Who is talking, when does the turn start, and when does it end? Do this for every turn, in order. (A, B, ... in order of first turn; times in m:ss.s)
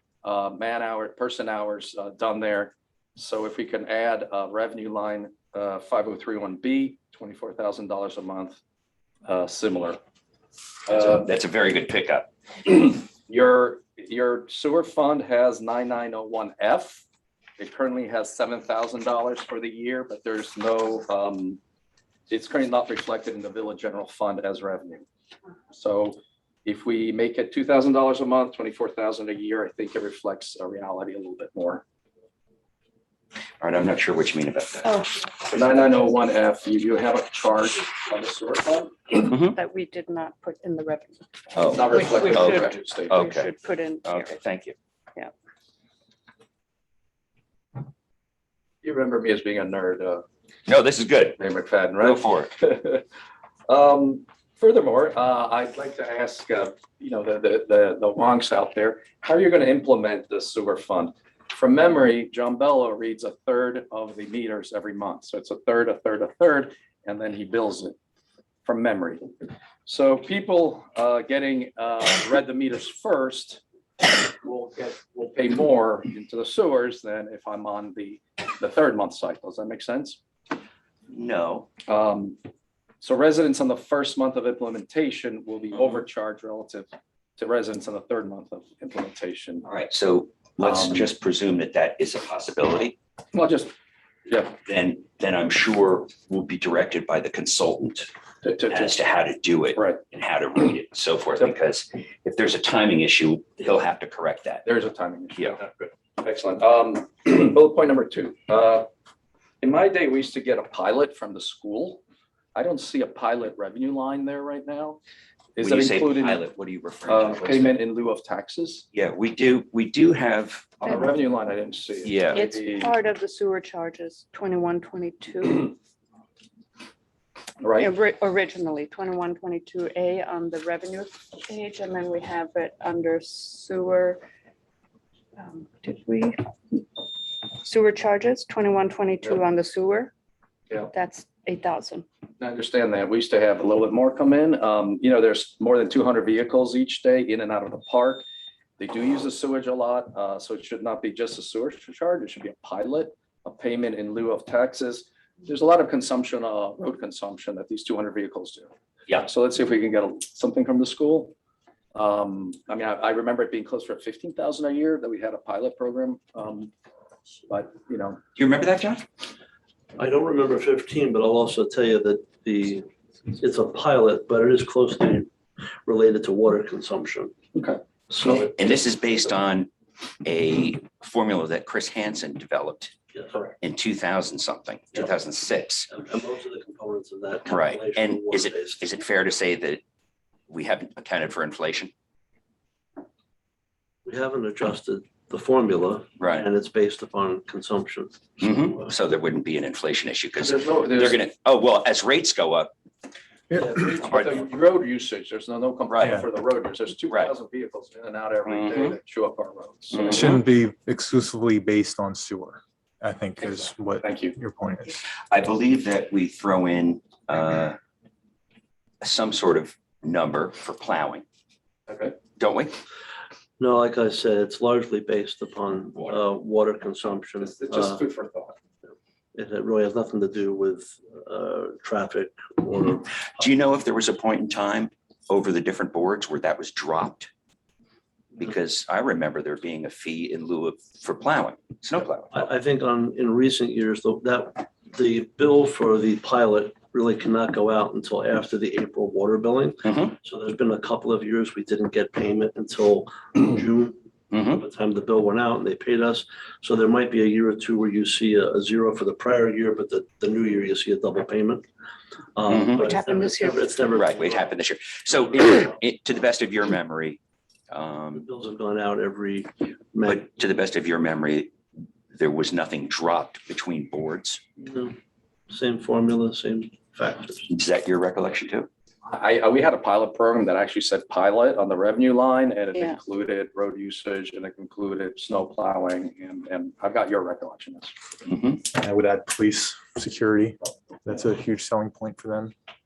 0:00.2-0:08.6 A
0:09.2-0:10.0 A
0:10.9-0:11.3 A
0:10.9-0:12.3 B
0:12.7-0:17.0 A
0:17.6-0:21.6 A
0:22.3-0:25.0 A
0:25.7-0:31.8 A
0:33.6-0:35.0 B
0:34.9-0:35.2 C
0:35.5-0:39.3 A
0:39.2-0:39.5 B
0:39.5-0:41.3 C
0:41.5-0:44.7 B
0:41.6-0:43.2 A
0:43.1-0:44.4 C
0:48.8-0:50.2 A
0:50.7-0:51.4 B
0:51.4-0:53.0 A
0:52.0-0:52.5 B
0:53.7-1:07.9 A
1:08.6-1:09.3 A
1:09.8-1:20.2 A
1:21.1-1:21.7 B
1:21.9-1:22.4 A
1:23.0-1:29.7 A
1:29.6-1:33.0 B
1:30.6-1:31.0 A
1:33.3-1:33.7 A
1:34.3-1:34.6 A
1:34.6-1:38.1 B
1:38.4-1:39.0 A
1:38.7-1:44.6 B
1:39.7-1:40.0 A
1:44.6-1:48.9 A
1:49.6-1:52.0 A
1:52.5-1:55.0 A
1:55.6-1:56.4 A
1:55.6-1:57.8 B
1:57.1-1:58.8 A
1:58.9-2:01.0 B
2:00.8-2:02.9 A
2:02.0-2:02.4 B
2:02.3-2:05.8 C
2:07.6-2:07.9 A
2:07.8-2:14.2 C
2:15.4-2:16.8 C
2:17.6-2:20.1 C
2:20.9-2:22.0 C
2:22.4-2:28.2 A
2:28.8-2:41.3 A
2:41.9-2:46.7 A
2:47.5-2:48.2 A
2:48.4-2:49.0 B
2:50.0-2:55.3 D
2:55.8-2:57.3 D
2:57.5-2:57.8 A
2:58.1-2:58.7 D
2:58.3-2:59.7 B
3:00.2-3:02.9 B
3:03.6-3:05.9 B
3:05.9-3:08.8 D
3:07.5-3:09.8 B
3:10.5-3:11.9 B
3:14.0-3:18.9 D
3:16.2-3:16.5 B
3:18.4-3:22.7 B
3:20.4-3:21.2 A
3:23.5-3:23.7 E
3:23.6-3:30.4 A
3:24.0-3:24.4 B
3:26.0-3:26.2 E
3:28.4-3:28.9 B
3:29.9-3:30.4 B
3:30.0-3:35.0 E
3:33.6-3:34.4 A
3:35.3-3:37.8 B
3:39.0-3:41.2 B
3:41.9-3:42.1 A
3:42.4-3:42.7 B
3:43.6-3:48.0 D
3:47.4-3:48.5 A
3:49.3-3:53.3 D
3:53.3-3:57.3 B
3:58.4-4:02.4 B
4:02.3-4:21.6 D
4:09.8-4:10.1 B
4:22.3-4:24.6 D
4:22.5-4:22.9 B
4:22.7-4:23.8 C
4:23.9-4:27.2 B
4:25.1-4:25.7 D
4:27.7-4:28.2 B
4:28.1-4:30.2 D
4:30.0-4:31.5 B
4:32.1-4:34.4 B
4:34.6-4:35.0 D
4:35.5-4:37.5 D
4:37.5-4:38.7 B
4:39.0-4:47.9 A
4:48.2-4:48.6 B
4:48.7-4:52.5 E